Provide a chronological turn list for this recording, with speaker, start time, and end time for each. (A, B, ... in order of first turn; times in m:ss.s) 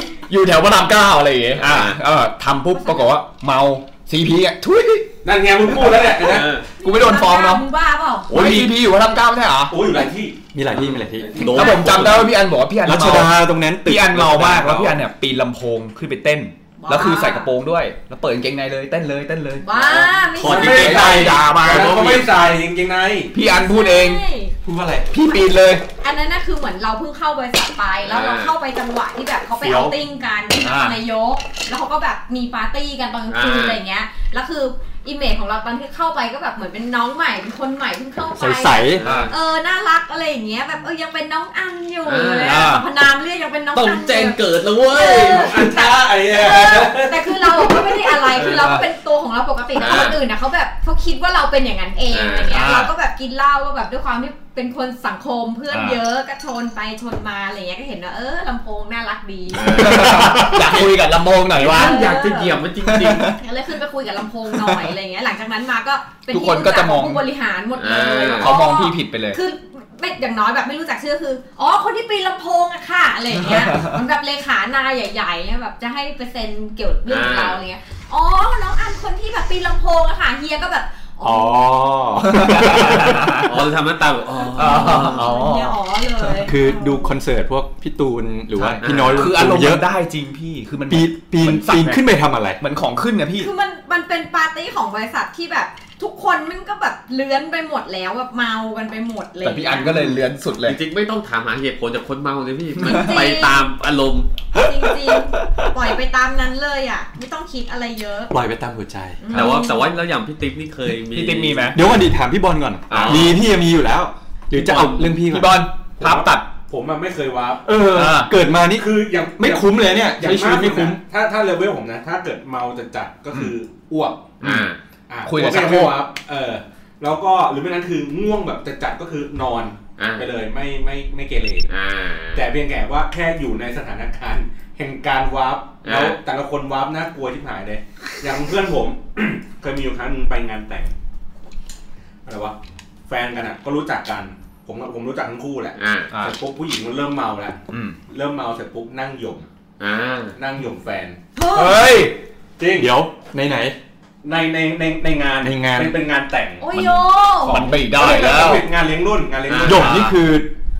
0:00.3-0:06.2 A
0:01.6-0:02.0 B
0:02.7-0:03.2 C
0:05.2-0:06.5 D
0:06.1-0:06.6 B
0:06.8-0:08.4 C
0:06.8-0:07.6 A
0:08.3-0:09.8 A
0:08.4-0:08.7 E
0:09.7-0:10.4 D
0:10.5-0:12.3 E
0:10.7-0:12.3 B
0:11.1-0:11.8 D
0:11.4-0:19.7 A
0:11.5-0:11.9 C
0:12.8-0:15.0 E
0:16.8-0:17.5 C
0:19.6-0:21.2 C
0:19.8-0:22.3 B
0:20.4-0:23.3 D
0:20.5-0:22.1 A
0:23.3-0:24.2 A
0:23.5-0:24.5 C
0:24.6-0:25.1 E
0:25.1-0:25.8 A
0:26.0-1:00.3 C
0:28.0-0:28.5 B
0:29.6-0:30.0 E
0:30.6-0:31.0 A
0:33.3-0:33.8 B
0:38.3-0:39.0 E
0:39.0-0:39.4 B
0:39.0-0:39.3 A
0:42.0-0:42.8 B
0:42.4-0:42.8 A
0:43.7-0:45.8 B
0:45.0-0:48.2 D
0:48.4-0:48.7 B
0:48.4-0:48.8 A
0:49.7-0:50.2 B
0:52.1-0:52.5 B
0:52.5-0:52.9 A
0:55.7-0:56.0 A
0:59.5-1:00.8 B
0:59.7-1:02.0 A
1:01.5-1:03.3 B
1:01.7-1:02.6 C
1:02.8-1:03.4 A
1:03.3-1:21.7 C
1:04.5-1:04.9 A
1:06.3-1:07.2 A
1:07.8-1:08.6 B
1:08.4-1:09.4 A
1:13.4-1:14.0 A
1:17.1-1:17.6 B
1:21.2-1:23.4 E
1:22.2-1:23.5 A
1:23.3-1:25.3 B
1:24.5-1:27.2 C
1:24.6-1:26.5 A
1:26.4-1:29.8 E
1:28.5-1:32.0 A
1:28.8-1:29.4 B
1:30.9-1:32.6 E
1:32.6-1:33.5 A
1:33.4-1:40.1 C
1:39.4-1:40.8 A
1:40.6-1:44.3 B
1:42.8-1:43.6 C
1:44.5-1:48.3 C
1:45.4-1:45.7 A
1:48.3-1:49.3 E
1:49.2-1:49.9 C
1:49.3-1:52.0 B
1:51.1-1:51.8 A
1:51.7-1:55.6 E
1:52.9-1:53.4 B
1:52.9-1:53.4 A
1:54.5-1:55.1 B
1:54.7-1:56.5 A
1:56.0-1:57.7 D
1:57.6-2:01.0 E
1:57.9-1:58.3 A
1:58.7-2:04.4 D
2:04.4-2:04.8 B
2:05.1-2:11.7 D
2:05.2-2:06.0 A
2:10.0-2:10.3 B
2:11.7-2:12.4 B
2:12.3-2:20.9 D
2:15.8-2:16.2 B
2:22.2-2:22.6 D
2:23.1-2:27.6 D
2:25.8-2:26.1 B
2:27.7-2:28.0 A
2:28.1-2:29.5 D
2:29.8-2:30.4 B
2:30.4-2:31.2 D
2:31.4-2:31.9 C
2:31.5-2:32.2 A
2:32.6-2:32.9 D
2:32.8-2:33.8 E
2:34.2-2:40.1 D
2:35.4-2:36.0 E
2:36.6-2:37.6 C
2:37.4-2:38.7 A
2:39.5-2:39.9 B
2:39.6-2:40.5 E
2:39.7-2:40.2 A